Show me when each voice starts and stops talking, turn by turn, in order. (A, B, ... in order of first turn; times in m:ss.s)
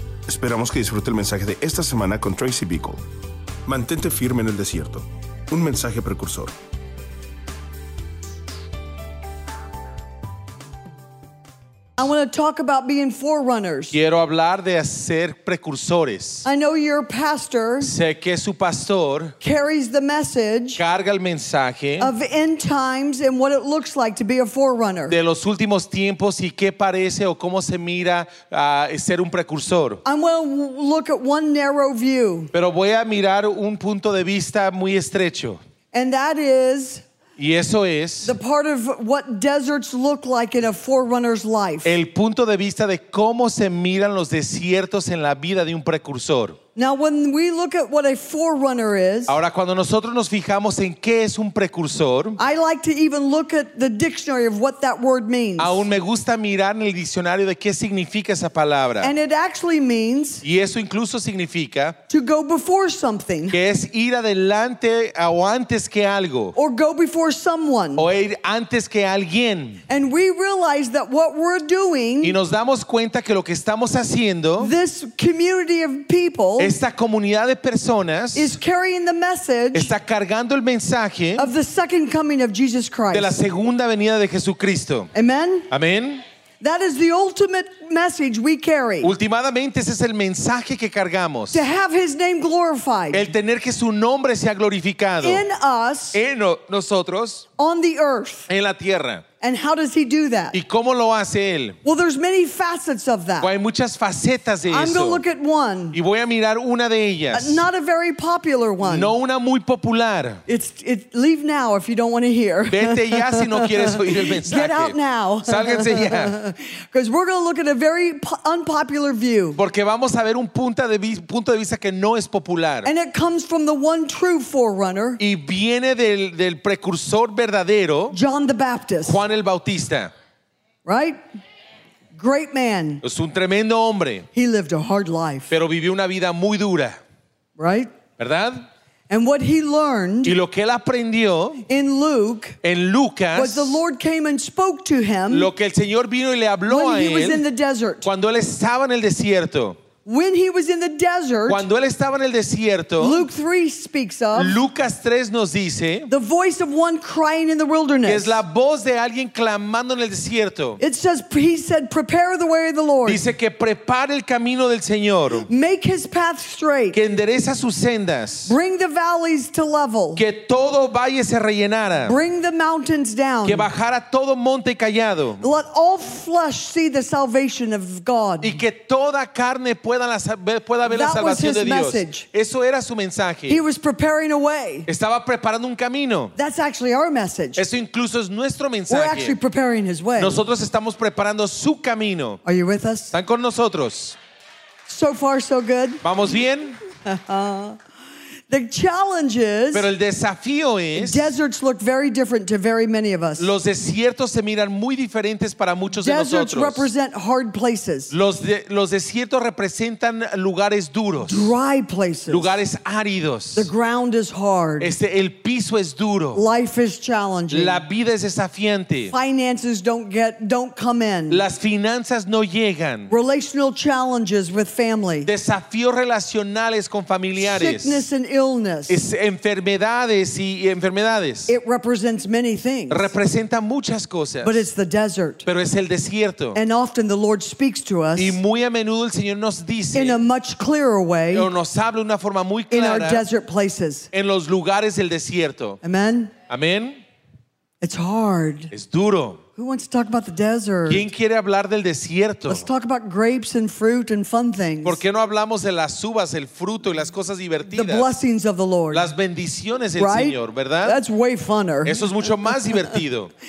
0:00.3-0:03.0 A
0:03.7-0:06.5 A
0:12.0-0:14.0 B
0:13.9-0:16.5 C
0:16.4-0:17.9 B
0:17.8-0:19.4 C
0:19.4-0:20.8 B
0:20.8-0:22.1 C
0:22.0-0:25.2 B
0:25.1-0:30.0 C
0:30.0-0:32.5 B
0:32.5-0:35.6 C
0:35.9-0:37.0 B
0:37.4-0:38.4 C
0:38.2-0:41.9 B
0:41.8-0:46.6 C
0:46.8-0:49.4 B
0:49.3-0:52.4 C
0:52.4-0:55.8 B
0:55.6-0:59.1 C
0:59.0-1:00.4 B
1:00.4-1:02.0 C
1:02.1-1:03.6 B
1:03.5-1:06.6 C
1:06.6-1:08.1 B
1:08.0-1:09.8 C
1:09.9-1:12.4 B
1:12.2-1:14.7 C
1:14.6-1:16.7 B
1:16.6-1:18.6 C
1:18.4-1:19.9 B
1:19.7-1:21.5 C
1:21.4-1:23.4 B
1:23.1-1:25.1 C
1:25.1-1:25.7 B
1:25.7-1:26.2 C
1:26.6-1:29.1 B
1:29.0-1:31.6 C
1:31.5-1:33.3 B
1:33.1-1:35.4 C
1:35.2-1:36.2 B
1:36.1-1:37.5 C
1:37.6-1:38.5 B
1:38.5-1:39.2 C
1:39.4-1:40.6 B
1:40.5-1:41.8 C
1:41.8-1:43.5 B
1:43.4-1:45.2 C
1:44.7-1:46.0 B
1:45.9-1:47.6 C
1:47.3-1:49.1 B
1:48.8-1:50.4 C
1:50.5-1:59.6 B
1:52.7-1:56.4 C
1:59.6-2:02.9 C
2:02.8-2:05.2 B
2:05.2-2:08.2 C
2:08.1-2:09.2 B
2:09.0-2:10.1 C
2:10.9-2:11.2 B
2:12.2-2:13.0 B
2:13.0-2:14.3 C
2:14.3-2:15.5 B
2:15.5-2:17.0 C
2:17.6-2:17.9 B
2:18.2-2:18.7 C
2:19.1-2:20.4 B
2:20.2-2:21.7 C
2:21.7-2:22.6 B
2:22.6-2:23.8 C
2:23.3-2:25.5 B
2:25.3-2:27.4 C
2:26.7-2:28.1 B
2:28.0-2:29.8 C
2:30.0-2:31.6 B
2:31.5-2:33.2 C
2:33.0-2:34.6 B
2:34.4-2:36.1 C
2:36.1-2:38.4 B
2:38.0-2:40.8 C
2:40.8-2:43.2 B
2:43.0-2:45.5 C
2:45.5-2:47.0 B
2:46.9-2:48.6 C
2:48.5-2:50.2 B
2:50.2-2:52.2 C
2:52.0-2:53.7 B
2:53.4-2:55.4 C
2:55.4-2:58.6 B
2:58.4-3:03.6 C
3:00.8-3:02.3 B
3:03.5-3:04.9 B
3:04.9-3:06.3 C
3:06.4-3:07.6 B
3:07.6-3:09.4 C
3:08.9-3:10.4 B
3:10.2-3:12.4 C
3:12.4-3:13.1 B
3:13.1-3:14.2 C
3:14.9-3:16.0 B
3:16.0-3:16.8 C
3:17.0-3:17.8 B
3:18.5-3:19.9 B
3:19.7-3:21.3 C
3:21.0-3:23.5 B
3:23.4-3:26.9 C
3:25.9-3:28.1 B
3:28.1-3:31.5 C
3:31.2-3:32.6 B
3:32.3-3:33.7 C
3:33.6-3:34.9 B
3:34.8-3:36.4 C
3:36.3-3:37.8 B
3:37.5-3:39.1 C
3:39.1-3:41.4 B
3:41.3-3:43.1 C
3:43.1-3:45.3 B
3:45.2-3:48.1 C
3:47.4-3:49.0 B
3:48.9-3:51.5 C
3:51.5-3:53.1 B
3:52.9-3:54.7 C
3:54.4-3:55.5 B
3:55.4-3:56.6 C
3:56.5-3:58.4 B
3:58.2-4:00.2 C
3:59.9-4:01.5 B
4:01.3-4:03.2 C
4:02.7-4:04.1 B
4:04.1-4:05.8 C
4:05.8-4:06.3 B
4:06.5-4:07.0 C
4:07.8-4:08.7 B
4:08.7-4:09.4 C
4:09.6-4:11.0 B
4:10.9-4:12.7 C
4:12.5-4:15.0 B
4:14.8-4:18.1 C
4:17.7-4:19.1 B
4:18.9-4:21.0 C
4:20.0-4:23.0 B
4:21.8-4:23.3 C